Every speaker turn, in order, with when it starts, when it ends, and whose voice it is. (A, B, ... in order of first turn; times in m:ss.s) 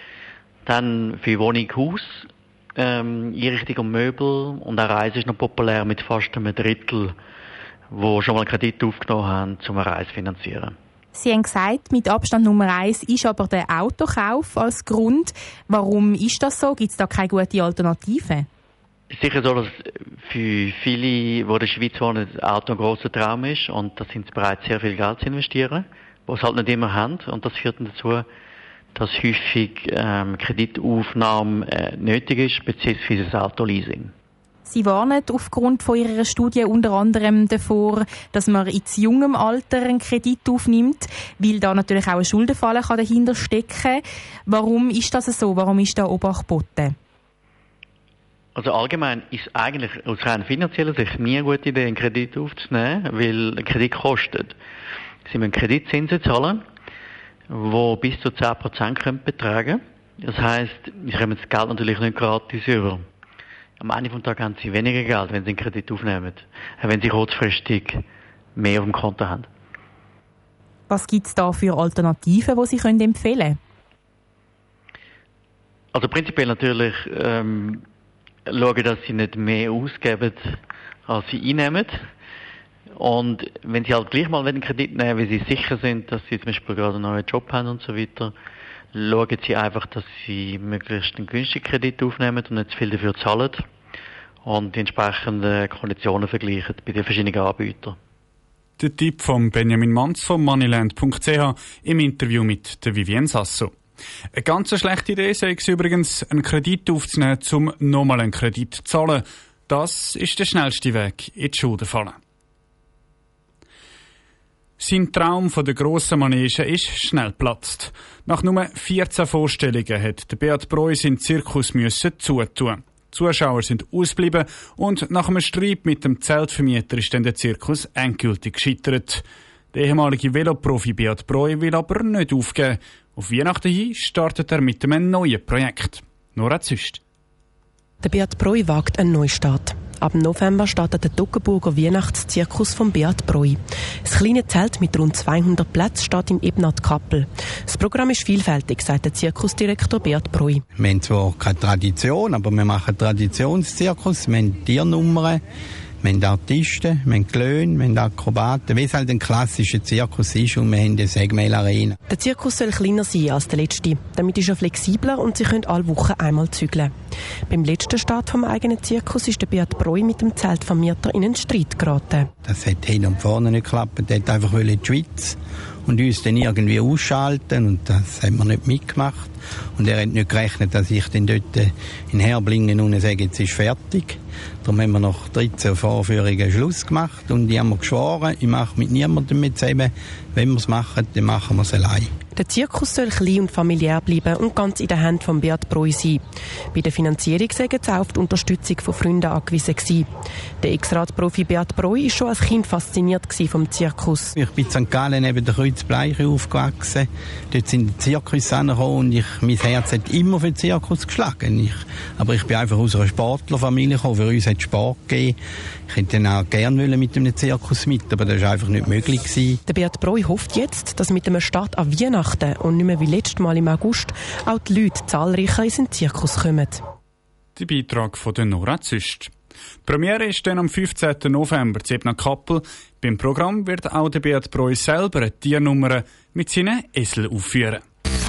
0:00.7-0:07.1 A
0:07.9-0:10.7 A
0:11.2-0:18.5 B
0:19.1-0:28.3 A
0:29.0-0:34.1 A
0:34.7-0:47.0 B
0:48.6-0:54.6 A
0:55.3-0:56.6 A
0:57.5-1:03.0 A
1:03.8-1:08.0 A
1:08.6-1:09.5 A
1:10.9-1:13.6 B
1:15.9-1:17.8 A
1:18.5-1:22.0 A
1:23.0-1:28.3 A
1:28.9-1:33.6 A
1:34.4-1:38.0 A
1:38.8-1:43.7 C
1:44.3-1:52.2 C
1:54.8-2:17.0 C
2:18.0-2:30.6 D
2:30.8-2:35.4 E
2:36.0-2:42.0 E
2:42.1-2:46.9 D
2:47.5-2:52.3 D
2:52.4-3:12.1 E
3:12.4-3:16.2 D
3:16.7-3:20.1 D
3:20.6-3:24.3 D
3:24.4-3:35.4 E
3:35.9-3:39.6 E
3:39.7-3:46.8 D
3:47.6-3:49.3 C
3:49.8-3:57.8 C